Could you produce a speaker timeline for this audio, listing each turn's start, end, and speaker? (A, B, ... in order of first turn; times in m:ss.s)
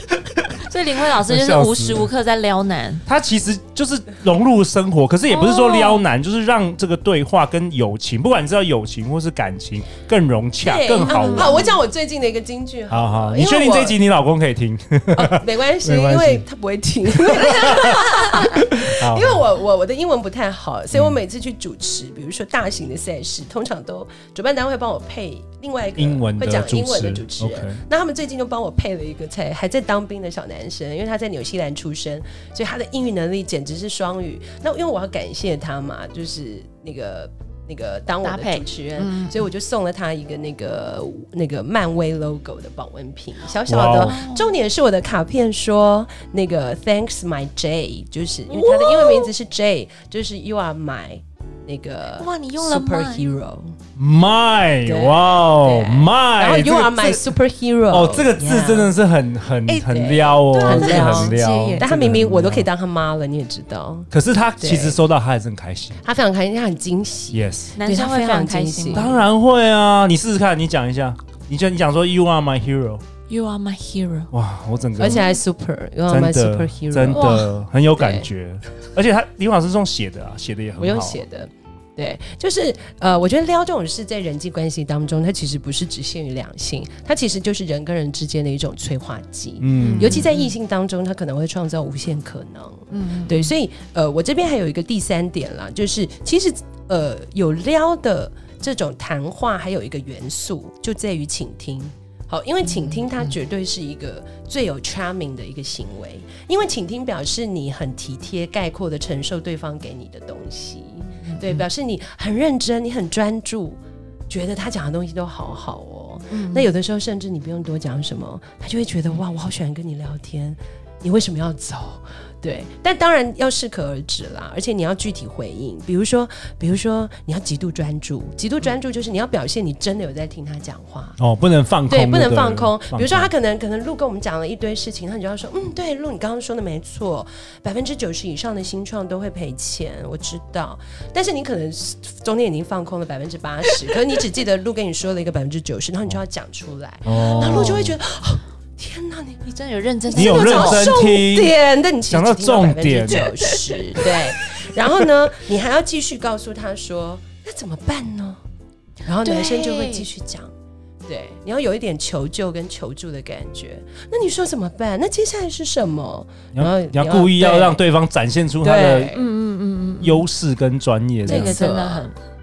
0:00.6-0:03.0 A
0:01.2-0:02.1 B
0:03.1-0:11.6 B
0:05.3-0:06.1 A
0:10.6-0:14.0 C
0:11.0-0:11.8 A
0:12.9-0:16.4 B
0:15.2-0:53.8 C
0:17.2-0:19.4 B
0:20.9-0:21.2 B
0:26.0-0:27.8 B
0:38.2-0:39.5 A
0:43.7-0:44.2 B
0:43.9-0:44.5 A
0:48.5-0:49.3 A
0:52.2-0:53.3 A
0:54.0-0:57.2 B
0:54.8-0:59.0 C
0:57.9-1:02.7 B
0:59.7-1:05.0 C
1:00.5-1:01.9 A
1:04.1-1:06.0 B
1:06.0-1:09.1 C
1:07.3-1:07.8 B
1:07.8-1:09.2 A
1:08.9-1:13.0 B
1:13.3-1:14.3 A
1:14.3-1:15.2 B
1:15.0-1:17.4 C
1:16.1-1:21.2 B
1:17.1-1:17.5 A
1:17.9-1:18.3 C
1:20.8-2:11.2 C
1:29.6-1:30.3 B
1:29.8-1:30.5 A
1:32.9-1:33.5 A
1:42.7-1:43.3 A
1:51.2-1:51.6 A
1:56.3-1:56.7 A
2:11.2-2:13.3 B
2:11.9-2:29.4 C
2:27.0-2:28.0 B
2:27.1-2:27.8 A
2:29.4-2:30.9 A
2:30.1-2:38.4 C
2:30.1-2:31.5 B
2:32.1-2:33.3 B
2:39.0-2:40.5 C
2:39.2-2:40.1 A
2:41.1-2:47.8 C
2:46.5-2:49.1 B
2:48.6-2:49.2 C
2:49.1-2:50.2 A
2:50.0-2:51.6 B
2:51.2-2:52.1 C
2:51.2-2:52.2 A